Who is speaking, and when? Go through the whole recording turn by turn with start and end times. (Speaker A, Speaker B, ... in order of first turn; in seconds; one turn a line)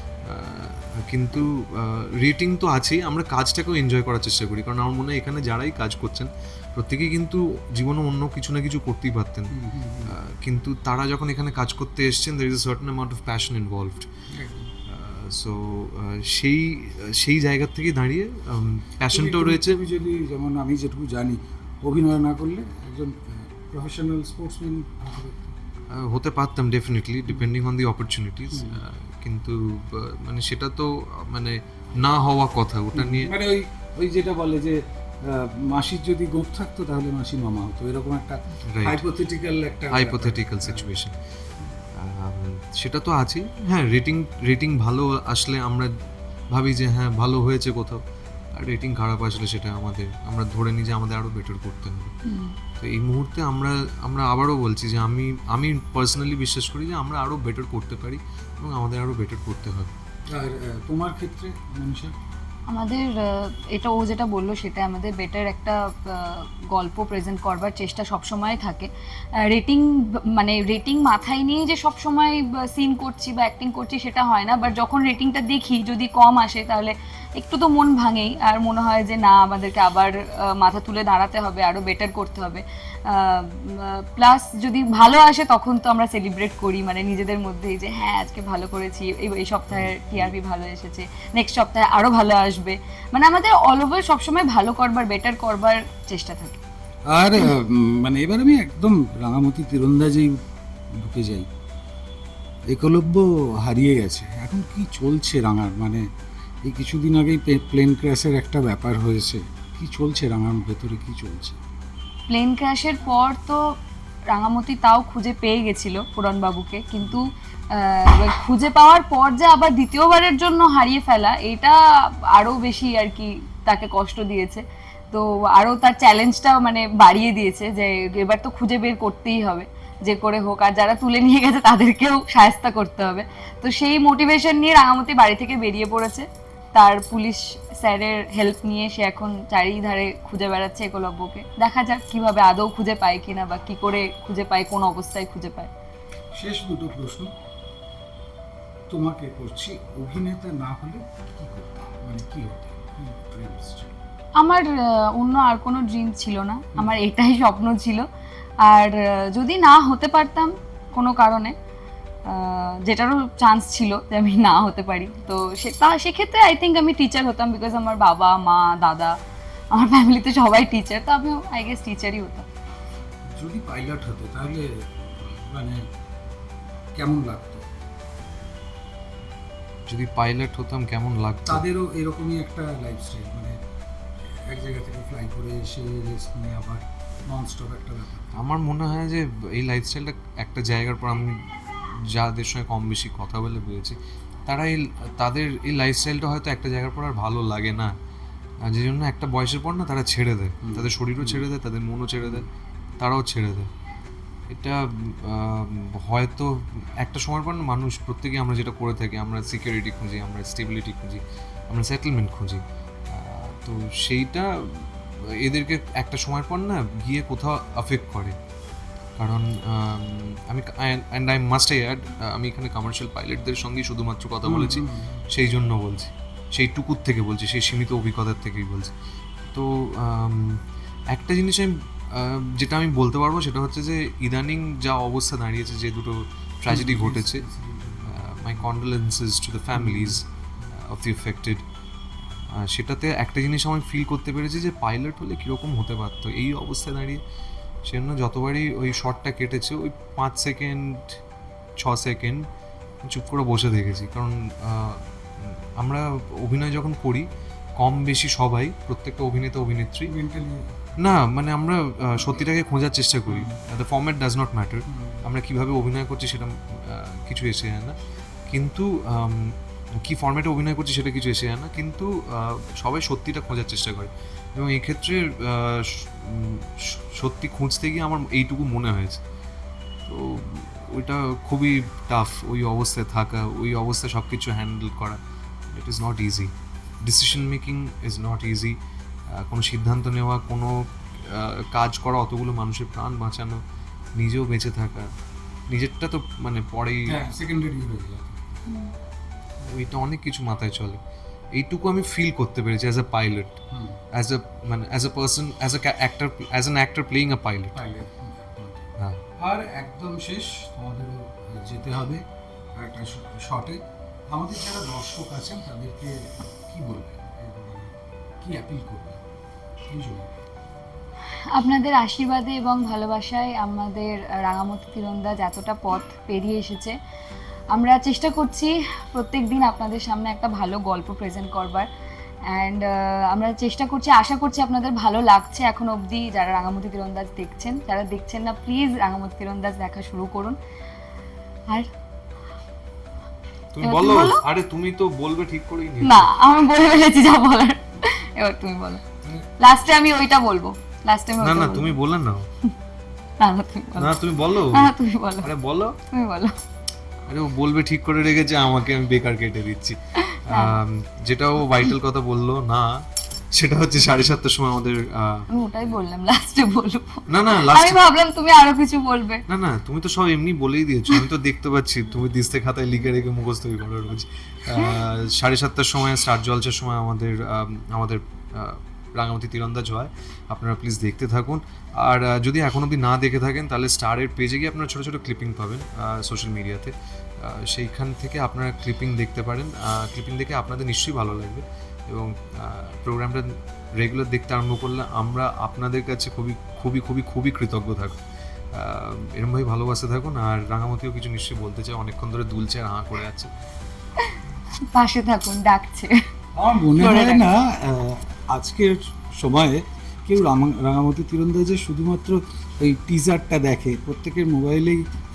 Speaker A: 0.2-14.1
Speaker B: 9.5-10.2
Speaker B: 14.3-14.7
Speaker A: 14.9-19.8
Speaker B: 19.1-25.6
Speaker A: 25.9-33.3
Speaker B: 28.5-28.8
Speaker B: 32.9-40.9
Speaker A: 38.7-39.0
Speaker A: 39.9-41.1
Speaker A: 42.0-45.9
Speaker A: 46.5-48.0
Speaker A: 48.5-52.1
Speaker C: 52.3-52.6
Speaker A: 52.8-59.9
Speaker B: 60.3-62.1
Speaker C: 62.7-96.6
Speaker B: 89.7-90.3
Speaker B: 97.1-100.4
Speaker B: 101.0-101.5
Speaker B: 102.7-106.0
Speaker B: 106.7-111.6
Speaker C: 112.3-113.6
Speaker C: 114.3-145.7
Speaker B: 146.3-147.3
Speaker B: 148.9-154.0
Speaker C: 154.4-158.1
Speaker C: 158.6-161.5
Speaker C: 162.3-169.2
Speaker C: 169.7-172.5
Speaker B: 173.3-175.8
Speaker B: 177.0-177.7
Speaker A: 179.9-181.6
Speaker B: 181.5-183.6
Speaker B: 184.5-188.5
Speaker A: 188.3-191.4
Speaker A: 192.1-197.9
Speaker A: 198.7-202.5
Speaker B: 200.7-201.5
Speaker A: 203.0-203.7
Speaker A: 204.5-218.4
Speaker A: 219.2-228.9
Speaker B: 224.4-225.3
Speaker A: 229.5-230.6
Speaker A: 231.1-237.5
Speaker B: 236.7-238.7
Speaker A: 238.1-241.6
Speaker B: 239.7-240.2
Speaker A: 242.6-247.2
Speaker A: 247.9-251.2
Speaker A: 251.8-252.4
Speaker A: 253.1-257.3
Speaker A: 257.8-260.1
Speaker B: 260.1-260.8
Speaker A: 261.0-268.0
Speaker B: 263.3-263.6
Speaker B: 264.9-265.2
Speaker A: 268.5-269.6
Speaker A: 270.1-279.2
Speaker A: 280.1-285.2
Speaker A: 285.7-288.8
Speaker A: 289.3-293.6
Speaker A: 294.2-295.1
Speaker A: 295.7-297.2
Speaker B: 297.1-298.6
Speaker A: 299.6-301.0
Speaker A: 301.6-303.6
Speaker B: 303.7-304.0
Speaker A: 304.1-307.8
Speaker B: 307.8-308.9
Speaker B: 309.4-312.2
Speaker B: 312.8-319.2
Speaker B: 319.9-320.3
Speaker C: 321.5-326.9
Speaker C: 327.7-331.9
Speaker C: 332.5-340.6
Speaker A: 343.7-346.3
Speaker C: 343.8-344.4
Speaker C: 346.0-349.0
Speaker C: 349.6-352.0
Speaker A: 351.4-352.5
Speaker C: 353.4-354.2
Speaker A: 354.0-356.0
Speaker C: 354.7-355.5
Speaker C: 356.1-356.5
Speaker A: 357.3-363.0
Speaker C: 360.3-360.8
Speaker A: 363.5-365.5
Speaker C: 365.5-369.4
Speaker A: 367.3-368.0
Speaker A: 369.5-398.2
Speaker A: 398.7-403.5
Speaker C: 404.8-406.1
Speaker B: 406.6-415.0
Speaker C: 407.0-407.4